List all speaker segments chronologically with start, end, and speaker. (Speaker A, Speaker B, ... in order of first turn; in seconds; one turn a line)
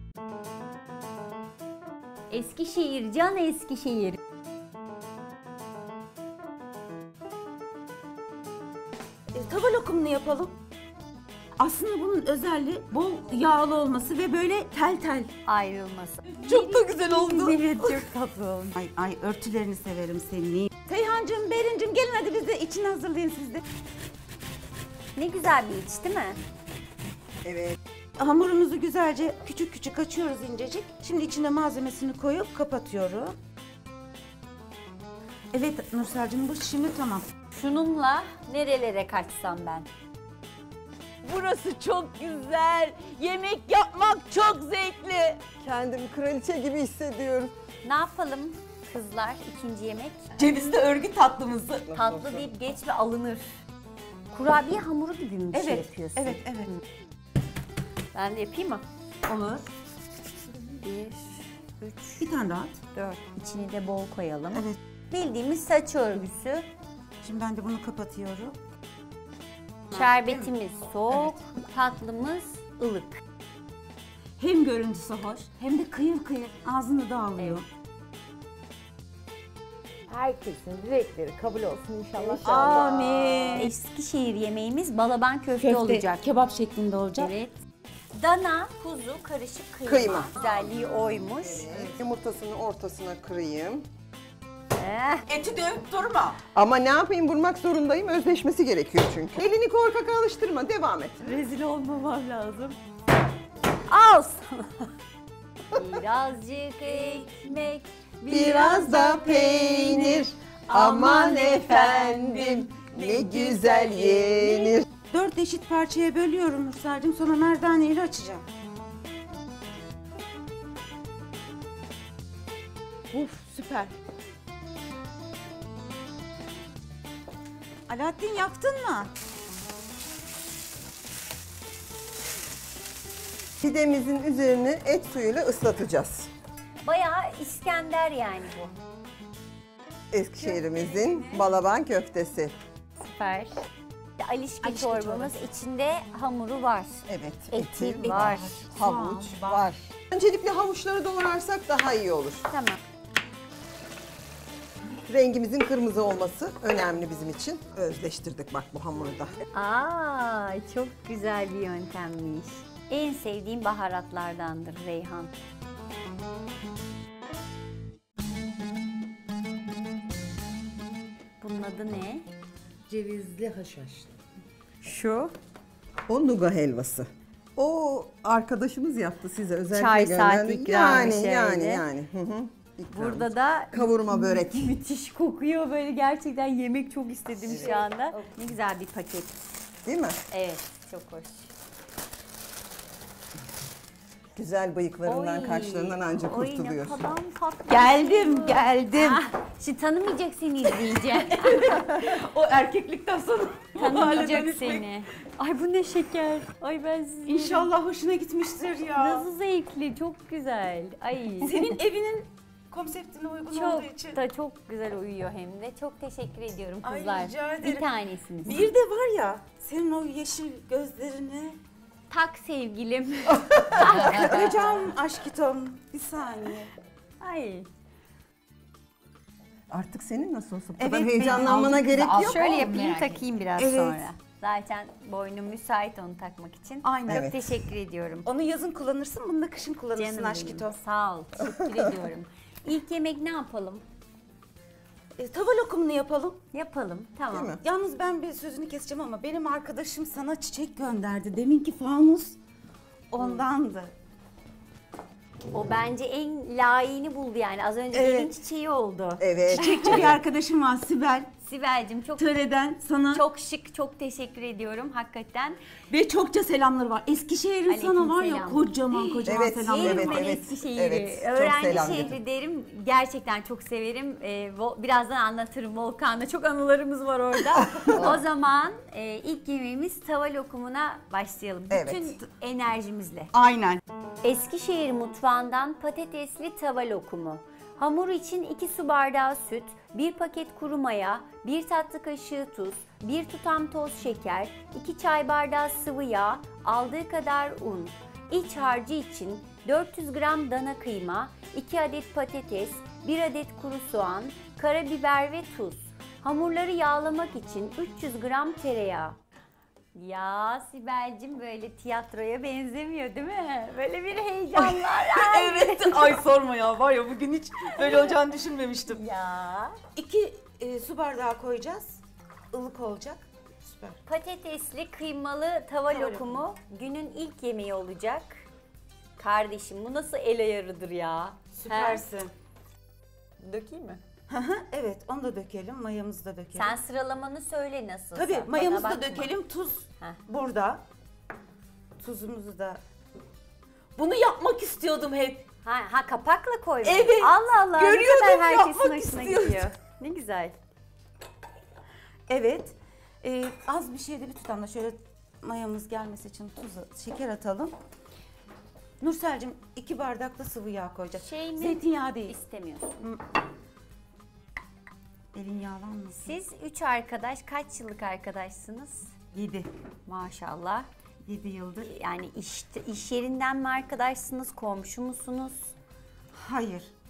Speaker A: 2.3-4.2
Speaker B: 9.3-10.5
Speaker B: 11.6-15.3
Speaker A: 15.4-18.8
Speaker B: 16.4-18.1
Speaker B: 18.7-23.6
Speaker A: 25.1-26.4
Speaker C: 27.4-27.8
Speaker B: 28.2-33.4
Speaker B: 35.5-37.3
Speaker A: 37.5-39.9
Speaker B: 41.2-45.4
Speaker C: 45.6-47.5
Speaker A: 47.8-50.2
Speaker B: 50.4-51.9
Speaker C: 51.9-52.5
Speaker A: 51.9-53.5
Speaker A: 54.3-56.8
Speaker B: 55.5-56.7
Speaker A: 58.1-58.8
Speaker B: 59.2-59.7
Speaker A: 60.6-62.3
Speaker B: 62.2-62.8
Speaker A: 62.9-66.7
Speaker B: 67.2-68.5
Speaker B: 69.9-70.5
Speaker A: 69.9-73.2
Speaker B: 74.4-77.6
Speaker D: 80.1-82.5
Speaker C: 82.2-83.7
Speaker B: 82.4-83.7
Speaker A: 83.4-86.2
Speaker B: 85.6-87.3
Speaker A: 87.2-87.6
Speaker A: 88.1-91.7
Speaker C: 89.8-93.8
Speaker A: 94.8-95.2
Speaker B: 95.3-96.4
Speaker C: 96.5-101.3
Speaker A: 101.2-102.8
Speaker A: 103.9-104.9
Speaker A: 105.7-112.6
Speaker C: 108.3-114.8
Speaker B: 113.2-113.9
Speaker A: 114.4-114.7
Speaker B: 115.1-118.4
Speaker B: 123.1-123.9
Speaker B: 127.9-129.1
Speaker C: 133.6-136.3
Speaker A: 136.8-138.7
Speaker C: 140.1-142.5
Speaker A: 140.4-141.4
Speaker A: 143.0-143.6
Speaker A: 144.2-148.6
Speaker B: 144.6-145.4
Speaker C: 147.1-152.4
Speaker B: 148.0-149.7
Speaker A: 152.5-152.8
Speaker C: 155.1-159.3
Speaker A: 159.5-165.3
Speaker A: 171.4-172.2
Speaker D: 172.9-174.1
Speaker A: 174.8-175.3
Speaker C: 176.1-184.8
Speaker A: 179.7-181.8
Speaker A: 182.9-189.5
Speaker B: 187.4-188.3
Speaker C: 187.5-187.8
Speaker C: 189.8-190.2
Speaker A: 190.3-191.5
Speaker C: 194.3-197.1
Speaker A: 195.0-201.7
Speaker B: 197.7-199.2
Speaker B: 200.8-204.8
Speaker A: 203.8-207.7
Speaker B: 207.2-209.3
Speaker A: 209.0-211.8
Speaker B: 211.4-214.2
Speaker A: 213.5-218.7
Speaker B: 216.8-217.9
Speaker B: 218.4-221.6
Speaker A: 222.1-224.8
Speaker C: 223.3-224.2
Speaker B: 223.7-226.7
Speaker A: 227.2-227.7
Speaker C: 229.7-232.4
Speaker B: 230.8-231.8
Speaker D: 231.2-233.2
Speaker A: 232.2-238.3
Speaker B: 233.6-234.1
Speaker B: 236.8-237.4
Speaker C: 237.1-237.3
Speaker B: 238.2-240.7
Speaker A: 239.9-243.8
Speaker B: 245.2-246.4
Speaker A: 246.5-247.6
Speaker C: 247.3-247.6
Speaker B: 247.6-252.4
Speaker B: 253.1-253.9
Speaker A: 253.2-253.4
Speaker A: 255.5-260.0
Speaker B: 257.9-258.3
Speaker C: 259.2-260.2
Speaker B: 259.5-261.3
Speaker A: 261.4-262.3
Speaker B: 262.2-263.2
Speaker A: 263.1-265.6
Speaker B: 265.9-270.3
Speaker A: 267.7-283.3
Speaker C: 269.2-272.1
Speaker C: 277.8-278.1
Speaker C: 281.7-282.1
Speaker B: 283.3-283.8
Speaker A: 284.2-309.2
Speaker A: 309.9-316.2
Speaker B: 314.5-319.0
Speaker A: 317.7-318.1
Speaker A: 318.9-319.8
Speaker B: 319.9-322.0
Speaker B: 322.5-324.0
Speaker A: 324.1-328.4
Speaker B: 325.9-326.4
Speaker A: 329.2-332.0
Speaker B: 331.5-332.3
Speaker A: 333.4-334.0
Speaker B: 334.3-336.8
Speaker A: 336.6-339.3
Speaker B: 338.1-340.8
Speaker B: 342.0-342.8
Speaker B: 343.9-345.4
Speaker A: 345.6-350.6
Speaker B: 346.8-349.7
Speaker B: 352.3-357.7
Speaker B: 359.0-362.3
Speaker A: 361.2-363.0
Speaker B: 365.3-366.3
Speaker A: 366.2-369.1
Speaker B: 369.3-369.7
Speaker A: 370.1-370.9
Speaker B: 371.2-371.9
Speaker A: 371.8-375.7
Speaker B: 376.3-376.9